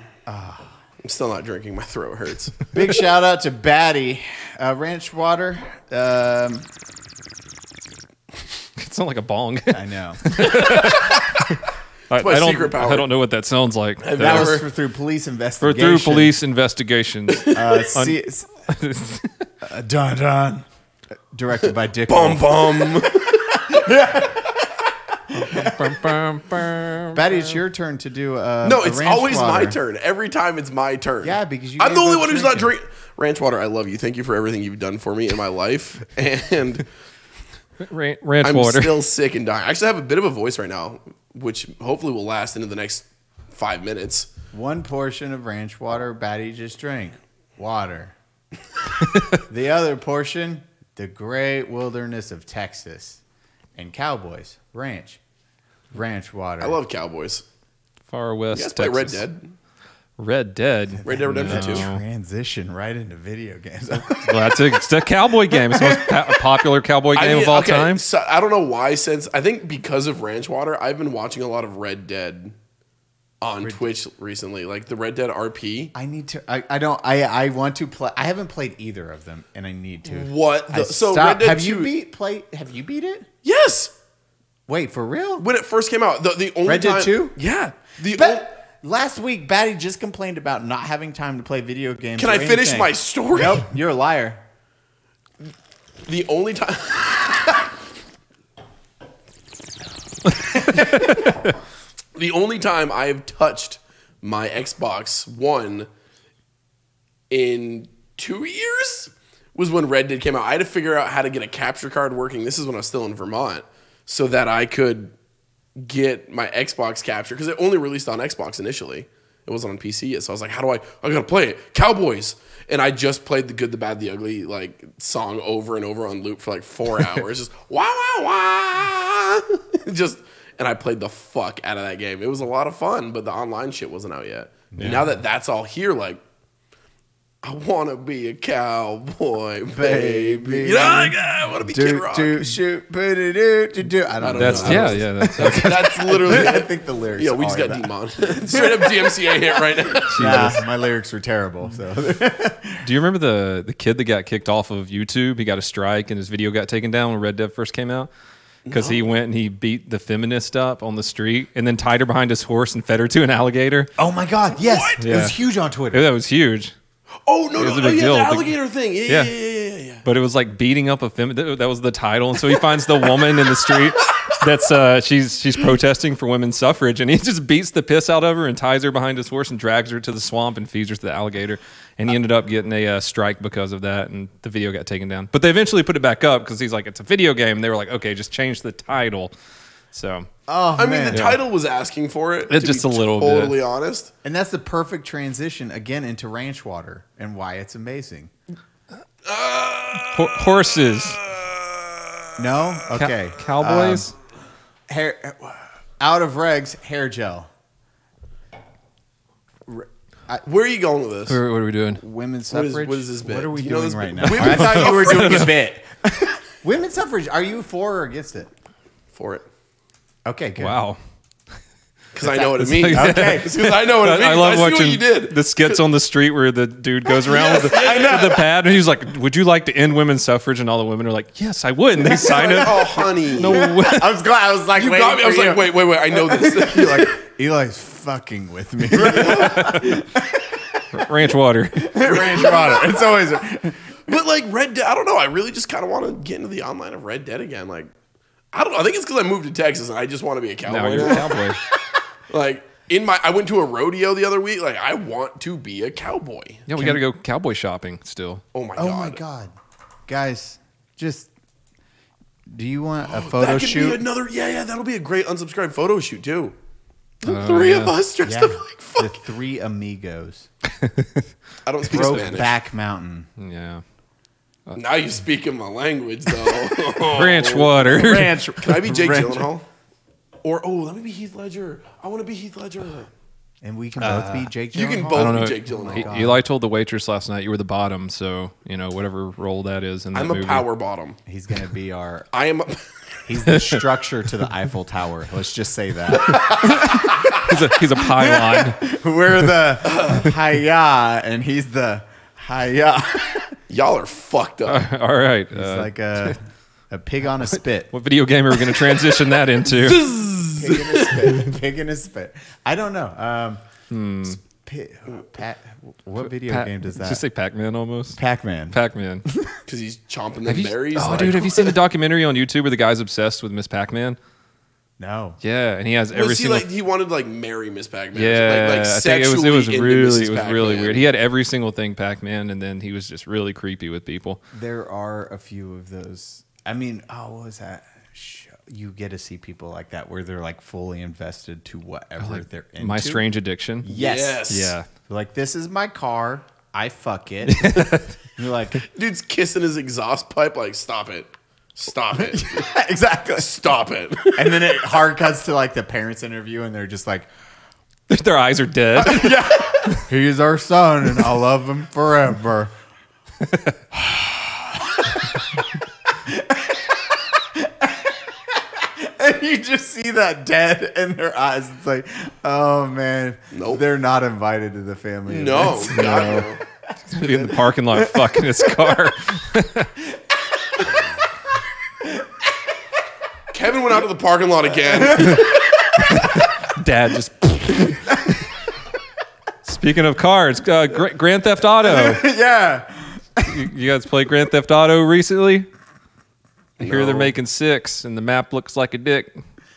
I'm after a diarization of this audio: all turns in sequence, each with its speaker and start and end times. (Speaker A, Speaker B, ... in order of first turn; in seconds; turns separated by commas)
Speaker A: 0.3-0.7, Speaker B: 1.0-2.7, Speaker A: 2.7-6.7, Speaker C: 8.8-14.6, Speaker A: 9.7-10.9, Speaker B: 10.4-11.4, Speaker B: 12.2-13.1, Speaker B: 14.0-14.7, Speaker A: 14.2-16.4, Speaker C: 15.6-18.2, Speaker B: 17.3-17.6, Speaker A: 17.5-18.5, Speaker C: 18.7-19.4, Speaker A: 19.6-20.7, Speaker A: 21.3-26.0, Speaker B: 22.1-23.8, Speaker C: 25.3-27.5, Speaker A: 27.1-29.8, Speaker B: 28.6-36.9, Speaker A: 31.2-32.7, Speaker C: 37.9-39.0, Speaker B: 38.4-44.3, Speaker A: 44.5-48.1, Speaker C: 49.1-49.4, Speaker A: 49.5-53.2, Speaker A: 53.8-55.2, Speaker A: 55.9-56.8, Speaker B: 56.6-57.5, Speaker C: 58.1-59.2, Speaker B: 58.5-59.5, Speaker C: 60.2-62.0, Speaker A: 61.0-64.8, Speaker B: 61.0-61.9, Speaker C: 64.2-68.0, Speaker B: 67.1-72.5, Speaker B: 73.4-75.9, Speaker A: 73.6-73.9, Speaker A: 75.9-83.3, Speaker B: 80.1-81.9, Speaker B: 83.4-83.9, Speaker A: 84.7-85.5, Speaker B: 85.4-88.5, Speaker A: 86.7-87.4, Speaker A: 88.1-94.4, Speaker B: 92.2-93.7, Speaker B: 96.1-97.6, Speaker B: 100.9-101.3, Speaker C: 101.0-101.3, Speaker B: 102.2-105.9, Speaker B: 107.3-115.1, Speaker B: 115.8-136.2, Speaker A: 134.8-135.0, Speaker B: 137.4-142.5, Speaker A: 139.7-152.9, Speaker B: 144.2-150.5, Speaker C: 144.3-146.4, Speaker C: 150.1-150.6, Speaker C: 152.8-158.1, Speaker B: 158.7-159.1, Speaker C: 158.7-163.9, Speaker A: 164.0-166.1, Speaker B: 164.6-165.0, Speaker C: 165.0-165.4, Speaker C: 165.9-166.7, Speaker B: 167.3-170.1, Speaker C: 167.6-168.6, Speaker C: 169.1-169.3, Speaker C: 170.0-189.3, Speaker B: 174.0-174.4, Speaker C: 189.9-190.3, Speaker A: 190.5-191.4, Speaker B: 190.8-194.1, Speaker C: 191.1-191.4, Speaker C: 192.5-193.6, Speaker A: 194.2-198.3, Speaker B: 199.2-202.6, Speaker C: 200.1-201.2, Speaker A: 202.4-204.1, Speaker C: 202.9-204.1, Speaker A: 204.9-207.5, Speaker A: 209.7-210.5, Speaker B: 210.4-211.4, Speaker C: 211.3-212.0, Speaker A: 212.0-218.5, Speaker B: 212.5-215.6, Speaker C: 214.2-215.5, Speaker B: 219.1-219.5, Speaker A: 220.3-220.8, Speaker C: 220.6-221.0, Speaker B: 222.1-225.8, Speaker C: 222.2-234.1, Speaker A: 222.5-223.6, Speaker B: 227.2-228.4, Speaker B: 232.1-233.6, Speaker A: 233.4-240.9, Speaker B: 234.8-237.2, Speaker B: 238.9-239.7, Speaker C: 239.1-240.0, Speaker C: 240.9-242.3, Speaker A: 241.8-244.0, Speaker B: 241.9-243.0, Speaker B: 244.1-247.9, Speaker B: 248.5-251.4, Speaker C: 250.7-251.6, Speaker B: 252.3-256.7, Speaker C: 256.7-258.4, Speaker A: 256.8-257.0, Speaker B: 258.5-259.2, Speaker A: 258.8-259.5, Speaker A: 260.1-261.3, Speaker A: 262.5-264.0, Speaker B: 263.0-266.6, Speaker B: 267.2-269.2, Speaker C: 267.2-268.0, Speaker A: 268.2-270.5, Speaker C: 270.8-271.2, Speaker B: 271.6-272.5, Speaker A: 271.9-273.3, Speaker C: 273.4-273.8, Speaker B: 274.8-277.9, Speaker C: 277.0-278.4, Speaker A: 277.7-279.5, Speaker B: 278.6-279.7, Speaker B: 280.4-283.1, Speaker A: 283.6-286.4, Speaker C: 284.0-284.4, Speaker B: 284.7-286.1, Speaker C: 285.1-290.7, Speaker B: 290.1-291.2, Speaker A: 291.3-292.3, Speaker B: 292.3-292.8, Speaker A: 293.3-303.5, Speaker C: 293.5-293.8, Speaker B: 296.2-296.9, Speaker C: 296.4-298.9, Speaker B: 299.8-300.3, Speaker B: 303.7-304.9, Speaker C: 304.7-306.4, Speaker A: 305.5-307.9, Speaker C: 307.9-310.1, Speaker B: 309.6-311.5, Speaker A: 310.5-313.6, Speaker C: 313.9-314.4, Speaker A: 314.2-317.2, Speaker C: 316.4-318.2, Speaker A: 318.2-319.6, Speaker C: 318.7-319.3, Speaker B: 319.7-321.8, Speaker C: 320.5-324.2, Speaker A: 325.0-325.4, Speaker C: 325.4-326.7, Speaker B: 326.1-331.1, Speaker C: 328.1-334.4, Speaker A: 334.5-343.2, Speaker C: 342.2-343.9, Speaker A: 343.8-344.5, Speaker B: 343.9-344.8, Speaker C: 344.5-344.9, Speaker A: 345.1-348.8, Speaker C: 347.5-348.1, Speaker B: 348.8-352.7, Speaker A: 352.1-353.5, Speaker B: 353.4-354.9, Speaker A: 354.4-357.3, Speaker C: 358.1-360.0, Speaker A: 359.0-362.7, Speaker C: 363.4-363.7, Speaker A: 363.9-376.5, Speaker B: 373.5-373.8, Speaker B: 375.3-376.6, Speaker C: 375.8-376.5, Speaker C: 377.1-380.0, Speaker A: 377.1-379.0, Speaker A: 380.6-381.0, Speaker A: 382.0-382.3, Speaker B: 383.5-385.5, Speaker A: 384.9-386.5, Speaker C: 385.2-388.4, Speaker A: 388.1-388.4, Speaker C: 389.6-392.2, Speaker A: 391.8-393.6, Speaker C: 393.4-395.7, Speaker B: 396.8-397.3, Speaker C: 396.8-399.3